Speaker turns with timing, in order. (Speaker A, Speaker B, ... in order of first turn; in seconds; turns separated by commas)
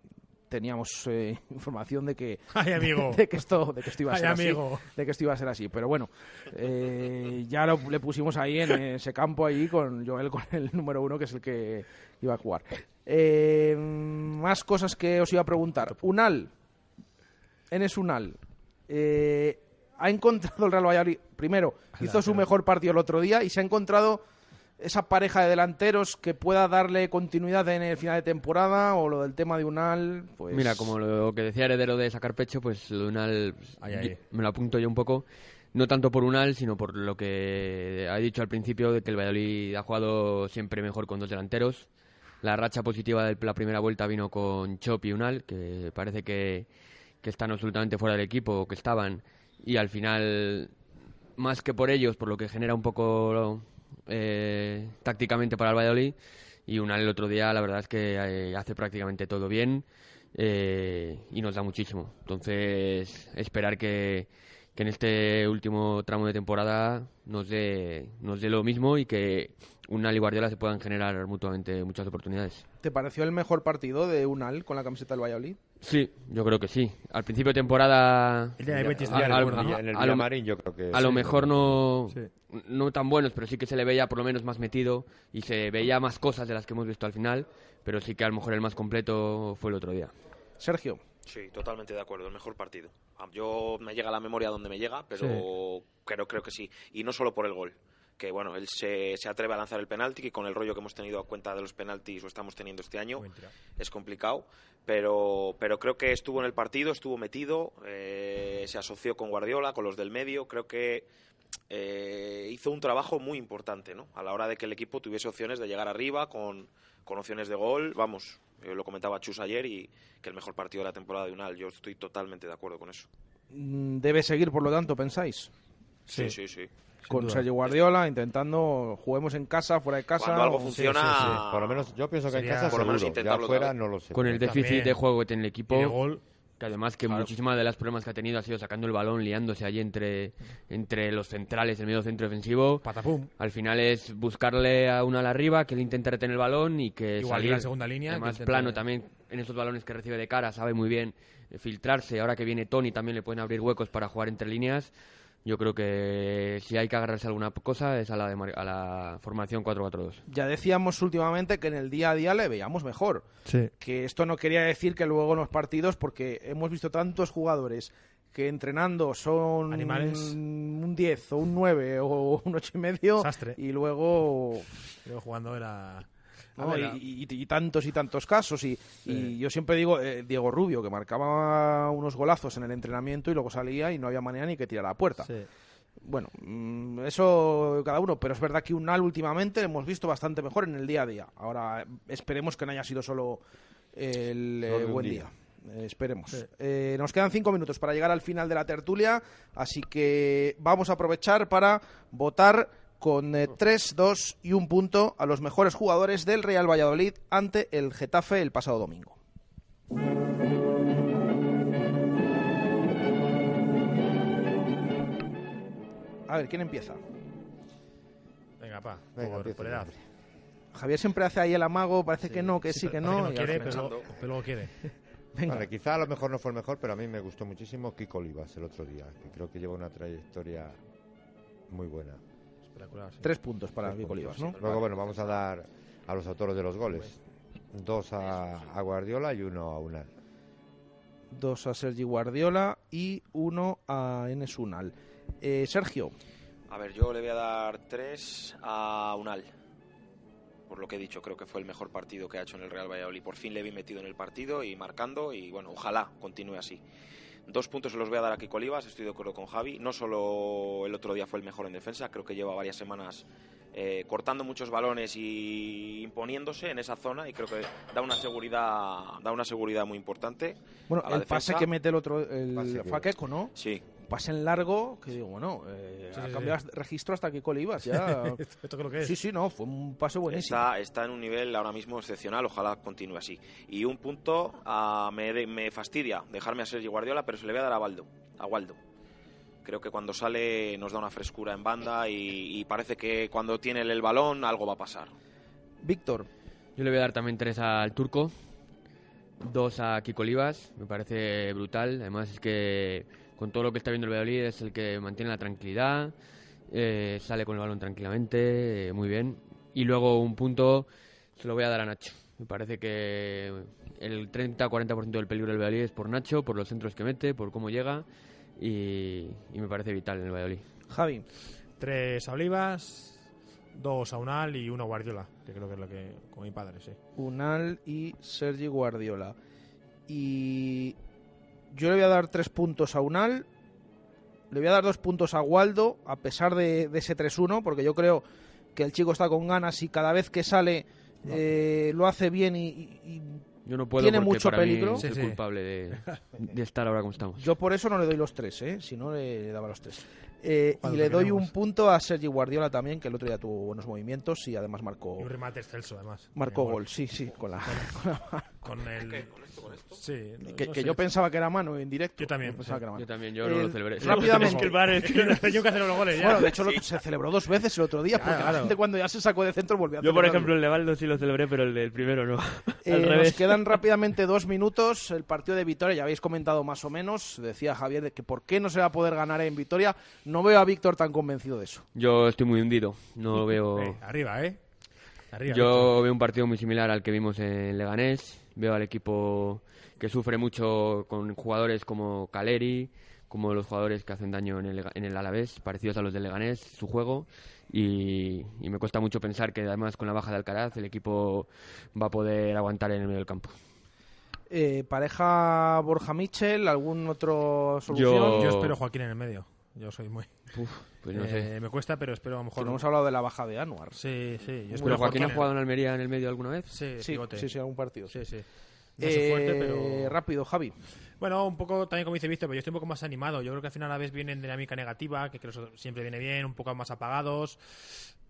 Speaker A: 0.5-16.5, Speaker B: 2.5-3.2, Speaker B: 4.1-4.9, Speaker A: 17.7-24.2, Speaker B: 22.0-22.4, Speaker A: 24.8-30.9, Speaker C: 30.5-41.9, Speaker B: 33.8-34.2, Speaker C: 42.4-46.7, Speaker C: 47.2-50.7, Speaker C: 51.4-56.1, Speaker C: 56.7-72.6, Speaker A: 72.8-75.6, Speaker C: 75.8-80.3, Speaker B: 78.6-79.8, Speaker D: 78.7-81.8, Speaker C: 80.9-90.1, Speaker A: 90.6-91.0, Speaker E: 91.3-111.1, Speaker B: 95.2-95.5, Speaker B: 103.2-103.5, Speaker E: 111.7-123.1, Speaker A: 123.5-125.5, Speaker B: 126.1-126.4, Speaker E: 126.1-126.7, Speaker B: 127.0-127.5, Speaker A: 127.1-130.8, Speaker E: 130.2-131.9, Speaker B: 130.7-131.4, Speaker D: 131.1-134.4, Speaker B: 132.3-132.8, Speaker E: 132.7-133.7, Speaker C: 134.1-136.0, Speaker B: 134.4-135.0, Speaker B: 135.7-136.2, Speaker C: 136.6-142.9, Speaker B: 142.8-143.3, Speaker C: 143.4-154.9, Speaker B: 147.2-148.8, Speaker C: 155.4-160.2, Speaker A: 160.3-163.3, Speaker B: 163.4-163.7, Speaker A: 163.8-174.7, Speaker B: 169.7-170.4, Speaker B: 173.2-173.6, Speaker B: 175.1-177.0, Speaker A: 176.6-185.3, Speaker B: 179.1-179.3, Speaker A: 186.0-193.4, Speaker A: 193.9-209.2, Speaker D: 194.7-195.3, Speaker A: 216.3-217.0, Speaker B: 218.6-219.9, Speaker D: 219.2-220.0, Speaker A: 220.7-224.1, Speaker B: 222.7-224.7, Speaker A: 225.3-225.7, Speaker D: 225.5-230.8, Speaker D: 231.7-232.2, Speaker B: 232.7-233.3, Speaker A: 233.2-234.8, Speaker D: 233.8-237.2, Speaker E: 234.2-235.4, Speaker D: 237.7-240.1, Speaker E: 238.2-238.7, Speaker A: 241.3-246.1, Speaker E: 246.7-249.5, Speaker E: 250.7-256.8, Speaker E: 257.5-271.7, Speaker A: 270.9-278.4, Speaker D: 272.5-273.1, Speaker E: 273.6-273.8, Speaker B: 276.1-276.6, Speaker B: 277.9-279.1, Speaker A: 279.0-280.7, Speaker E: 280.3-288.8, Speaker E: 289.6-295.1, Speaker A: 295.8-296.3, Speaker C: 296.8-298.3, Speaker C: 299.4-306.1, Speaker C: 306.7-318.1, Speaker C: 318.6-320.6, Speaker A: 320.9-321.2, Speaker B: 321.8-323.2, Speaker B: 323.8-327.0, Speaker A: 327.2-329.4, Speaker A: 330.1-331.0, Speaker A: 331.7-333.5, Speaker A: 334.5-338.2, Speaker A: 338.8-343.4, Speaker C: 343.7-347.4, Speaker A: 344.0-345.1, Speaker B: 345.0-345.4, Speaker A: 347.4-355.3, Speaker B: 350.8-351.5, Speaker B: 355.2-356.8, Speaker A: 356.4-358.5, Speaker B: 358.6-359.3, Speaker E: 359.0-360.0, Speaker B: 360.0-361.1, Speaker A: 360.4-364.8, Speaker B: 362.2-362.8, Speaker C: 362.9-365.6, Speaker B: 364.0-366.5, Speaker A: 366.1-370.5, Speaker B: 368.1-368.8, Speaker C: 370.0-373.8, Speaker A: 372.9-381.9, Speaker C: 381.9-384.0, Speaker B: 383.4-384.6, Speaker B: 385.3-385.9, Speaker C: 385.5-403.6, Speaker A: 404.5-408.4, Speaker C: 407.9-408.8, Speaker B: 408.3-410.5, Speaker C: 410.5-411.5, Speaker B: 411.1-412.8, Speaker A: 412.6-414.0, Speaker B: 413.9-415.5, Speaker A: 414.7-415.5, Speaker C: 414.8-416.8, Speaker B: 416.7-417.5, Speaker A: 417.0-418.1, Speaker B: 418.1-418.4, Speaker B: 419.0-420.1, Speaker A: 419.0-420.8, Speaker B: 421.2-427.6